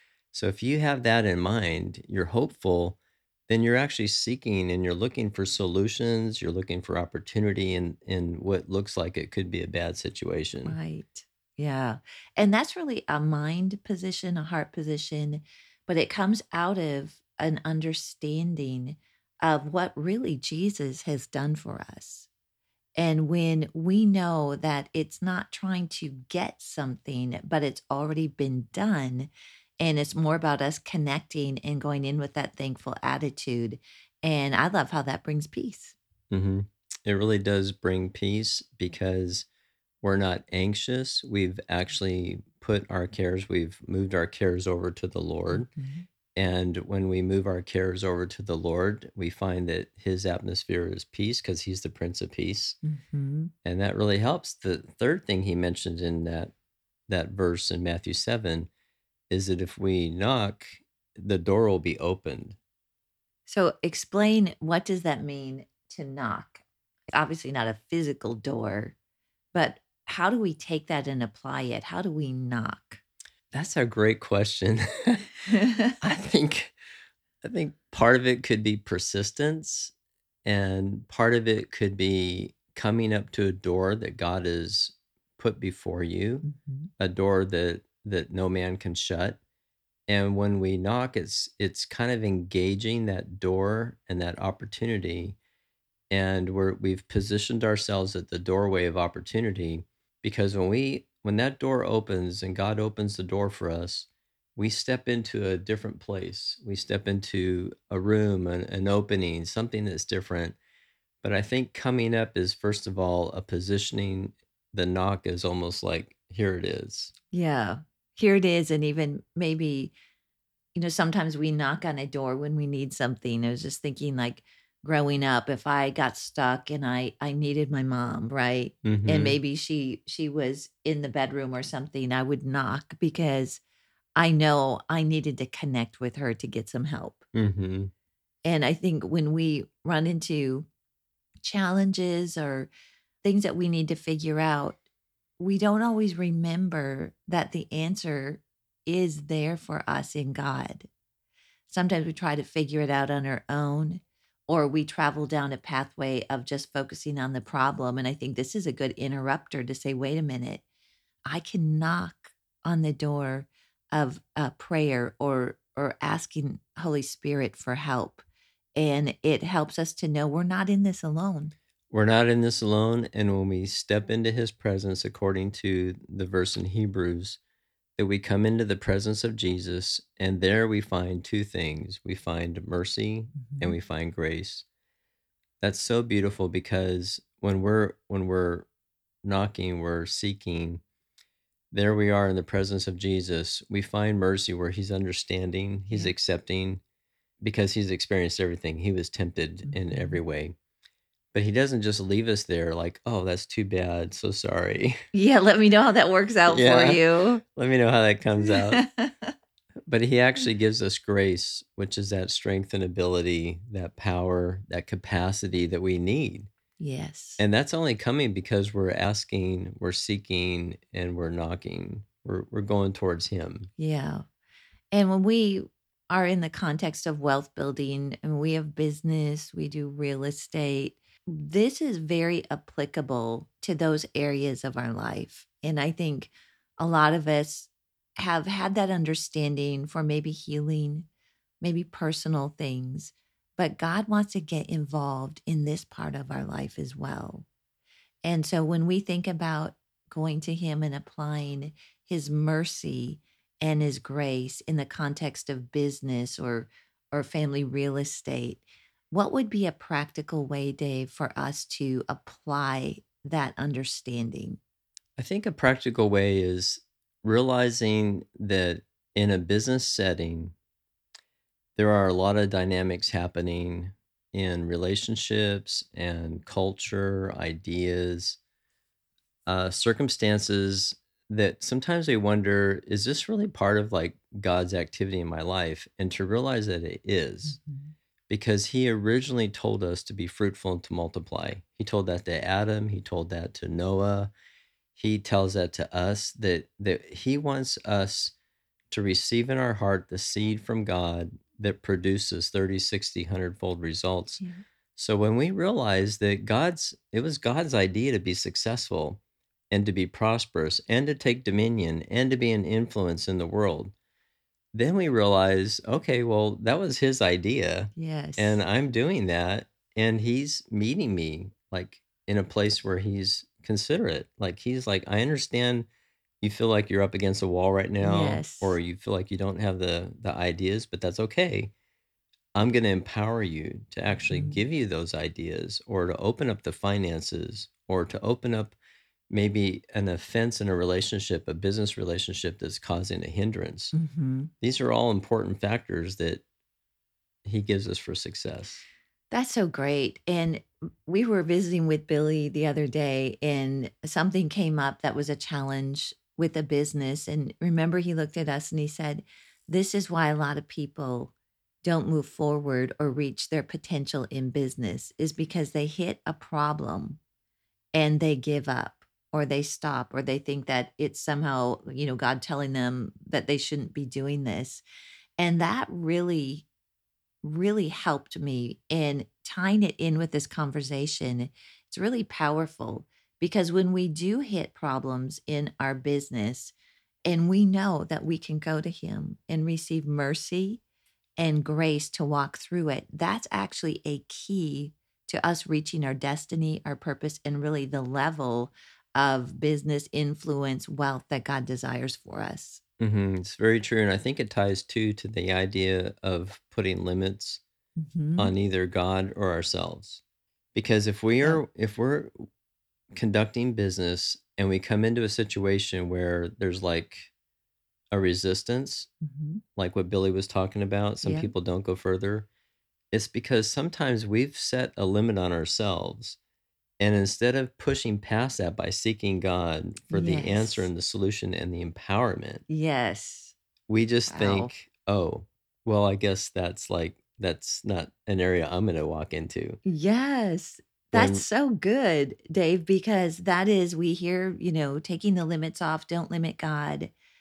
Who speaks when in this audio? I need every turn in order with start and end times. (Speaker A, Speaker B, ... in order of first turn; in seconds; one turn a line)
Speaker A: 0.3-10.8
Speaker B: 10.6-22.3
Speaker B: 22.9-36.0
Speaker A: 36.3-39.5
Speaker A: 40.0-45.7
Speaker B: 45.5-46.0
Speaker A: 46.3-52.8
Speaker B: 52.8-53.5
Speaker A: 53.6-56.5
Speaker A: 57.1-58.7
Speaker A: 59.3-62.6
Speaker B: 63.5-66.6
Speaker B: 67.1-69.0
Speaker B: 69.5-73.0
Speaker A: 73.5-75.3
Speaker A: 76.0-76.8
Speaker A: 77.4-79.9
Speaker A: 80.4-86.5
Speaker B: 86.4-86.9
Speaker A: 87.0-89.4
Speaker A: 90.1-95.4
Speaker A: 96.1-110.6
Speaker A: 111.2-117.1
Speaker B: 117.3-119.9
Speaker B: 120.7-133.6
Speaker A: 128.8-129.4
Speaker B: 134.1-137.2
Speaker A: 137.3-137.9
Speaker B: 138.4-140.7
Speaker B: 141.4-142.7
Speaker B: 143.2-144.8
Speaker B: 145.4-150.9
Speaker B: 151.7-160.6
Speaker B: 161.2-168.2
Speaker B: 168.8-171.5
Speaker A: 171.9-177.4
Speaker A: 178.0-184.6
Speaker B: 183.3-183.7
Speaker A: 185.6-188.7
Speaker A: 189.2-190.8
Speaker A: 191.7-196.8
Speaker A: 197.4-200.5
Speaker B: 199.7-200.2
Speaker A: 201.3-205.0
Speaker B: 205.1-207.4
Speaker A: 206.5-207.0
Speaker A: 207.5-208.8
Speaker B: 208.4-209.2
Speaker A: 209.9-216.5
Speaker B: 216.8-217.4
Speaker A: 217.4-223.7
Speaker B: 223.8-224.2
Speaker B: 224.9-241.1
Speaker B: 241.6-247.5
Speaker B: 248.2-264.6
Speaker A: 265.2-270.5
Speaker A: 271.8-278.4
Speaker A: 279.4-287.6
Speaker B: 287.4-287.9
Speaker A: 288.3-294.3
Speaker A: 294.9-298.3
Speaker A: 298.9-304.4
Speaker A: 304.9-309.2
Speaker A: 309.7-313.9
Speaker A: 314.7-325.9
Speaker B: 317.9-318.6
Speaker A: 326.4-331.7
Speaker B: 328.0-328.8
Speaker A: 332.5-338.8
Speaker B: 334.3-334.6
Speaker A: 339.3-343.9
Speaker B: 343.9-344.5
Speaker A: 344.6-346.4
Speaker A: 347.4-348.8
Speaker B: 349.3-367.2
Speaker B: 367.9-374.8
Speaker B: 375.4-376.6
Speaker B: 377.4-386.7
Speaker B: 387.2-390.8
Speaker B: 391.4-402.8
Speaker A: 403.0-407.6
Speaker B: 407.9-408.5
Speaker A: 408.4-410.2
Speaker A: 410.7-412.4
Speaker A: 413.1-417.3
Speaker A: 418.1-419.1
Speaker B: 419.2-419.6
Speaker A: 419.8-422.5
Speaker B: 421.2-421.5
Speaker A: 423.1-426.4
Speaker A: 427.0-432.6
Speaker B: 430.1-430.9
Speaker B: 432.7-433.5
Speaker A: 433.9-439.8
Speaker B: 434.3-434.7
Speaker B: 439.8-447.1
Speaker A: 441.1-441.4